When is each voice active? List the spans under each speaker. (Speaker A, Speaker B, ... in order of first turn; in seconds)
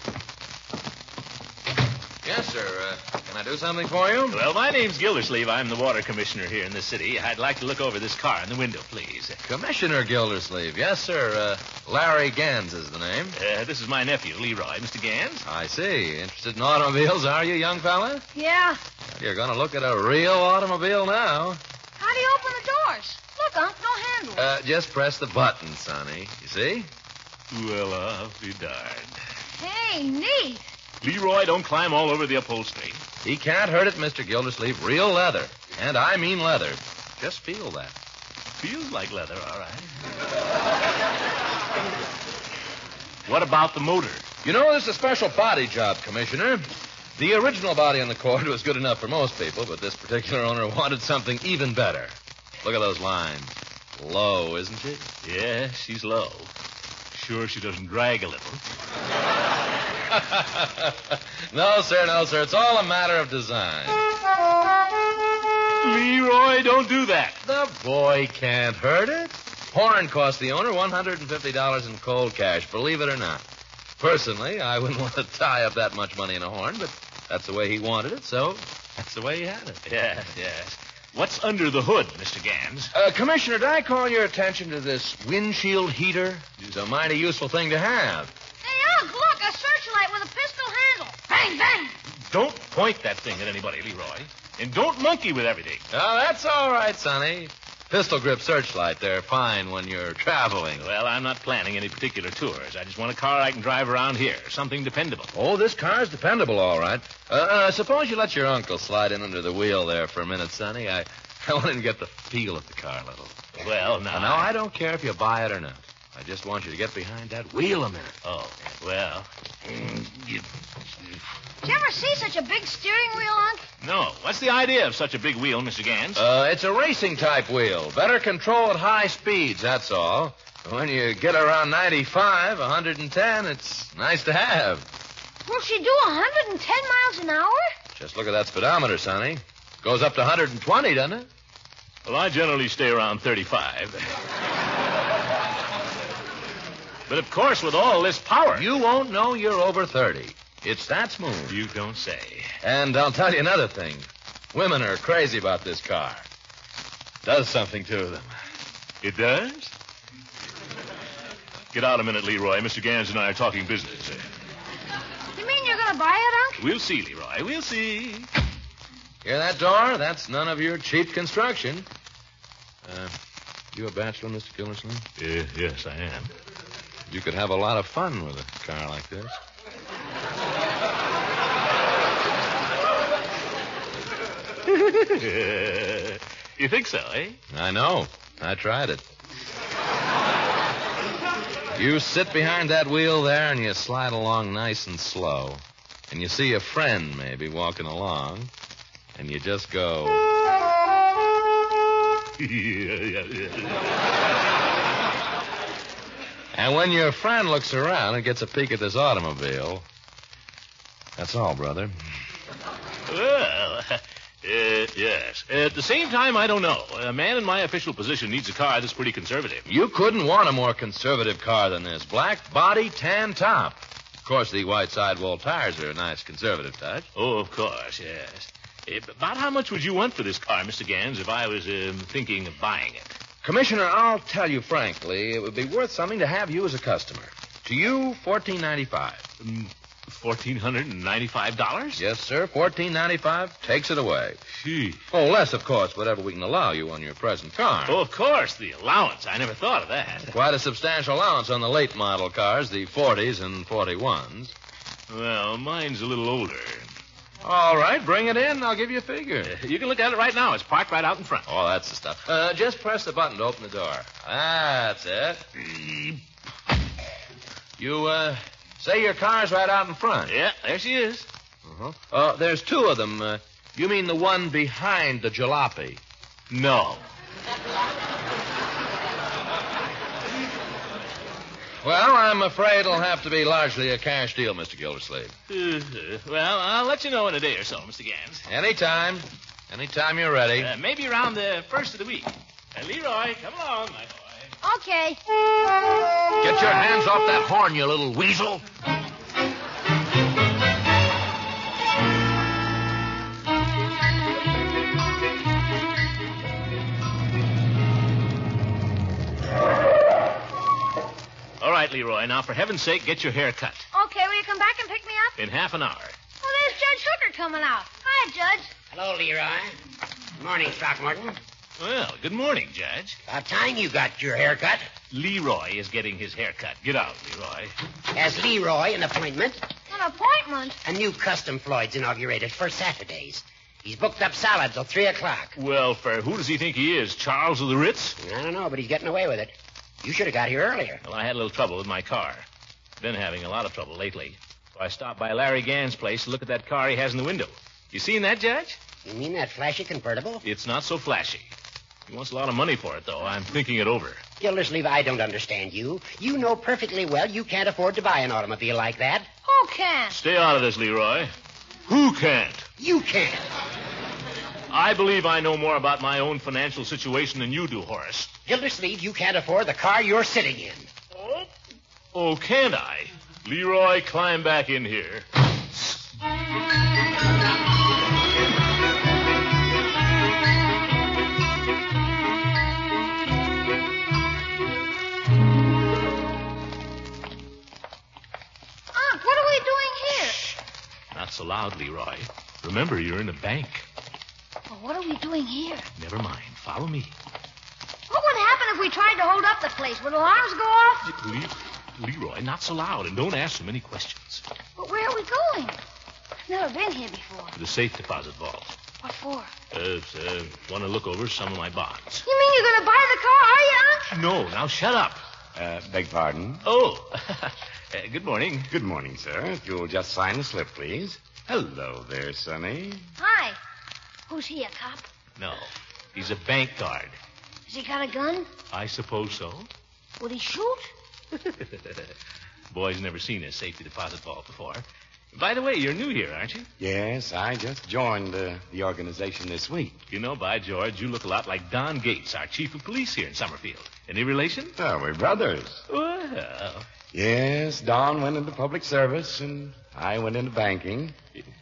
Speaker A: 2.2-4.4, 9.4-13.3, 15.4-18.2, 19.1-21.6, 24.4-26.9, 33.2-38.0, 44.4-55.1, 60.1-64.0, 67.4-73.4, 74.0-79.8, 82.9-88.3, 95.9-100.8, 105.3-113.4, 114.1-118.2, 119.7-120.4, 126.2-134.9, 137.9-141.3, 148.5-151.6, 152.6-156.2, 157.2-158.3, 169.2-171.9, 172.8-173.2, 173.7-175.1, 177.1-179.4, 187.5-189.0, 191.7-198.5, 199.1-200.2, 206.5-209.8, 211.2-211.9, 219.7-227.1, 233.4-239.2, 241.9-244.4, 245.1-248.0, 250.3-254.5, 257.4-259.5, 261.5-266.2, 267.8-270.3, 271.6-276.0, 281.8-285.3, 288.4-290.7, 296.4-298.6
Speaker B: 4.3-9.4, 13.3-15.4, 27.5-29.2, 31.0-33.0, 38.6-39.9, 43.2-44.2, 55.2-56.5, 57.1-58.6, 65.8-67.4, 79.8-82.9, 92.3-95.8, 100.8-105.3, 113.6-114.5, 118.2-119.3, 123.8-126.2, 142.1-144.1, 147.1-148.7, 151.5-152.6, 159.0-159.7, 161.7-164.2, 166.6-168.3, 175.2-176.3, 184.7-187.4, 202.4-203.8, 213.1-219.7, 227.1-233.2, 239.4-242.0, 244.6-245.0, 247.9-250.3, 255.1-256.9, 259.4-261.5, 270.3-271.3, 276.5-277.0, 285.5-288.4, 290.6-294.5, 311.6-313.9, 315.4-316.1, 321.8-323.2, 325.1-327.7, 335.6-338.2, 341.0-342.4, 343.0-348.8, 350.4-351.5, 352.1-354.2, 360.1-361.3, 361.9-362.6, 364.7-368.3, 371.2-371.5, 372.1-375.3, 391.1-393.9, 395.9-397.1, 401.0-404.4, 407.6-408.8, 409.7-412.2, 414.1-415.2, 416.6-418.7, 425.4-427.2, 428.7-429.7, 431.4-432.1, 432.7-436.7, 440.1-444.8, 445.9-446.9
Speaker C: 18.3-18.8, 22.0-24.5, 29.6-30.6, 88.6-91.9, 121.6-123.6, 135.4-137.7, 165.3-166.6, 294.6-295.2, 313.9-315.4, 316.4-318.7, 329.9-330.8, 359.4-360.1, 388.9-390.6, 394.7-395.9, 398.1-401.1, 404.8-405.8, 406.5-407.5, 409.0-409.5, 412.2-414.1, 423.2-423.6, 424.3-425.1, 427.7-428.5, 430.2-430.9
Speaker D: 318.9-319.7, 320.4-321.4, 323.3-324.9, 328.1-329.6, 330.9-335.5, 338.2-341.0, 349.1-350.4, 354.4-359.3, 362.8-363.4, 368.5-370.9
Speaker E: 415.6-416.6, 418.7-423.1, 436.8-440.0, 444.8-445.8, 447.1-451.1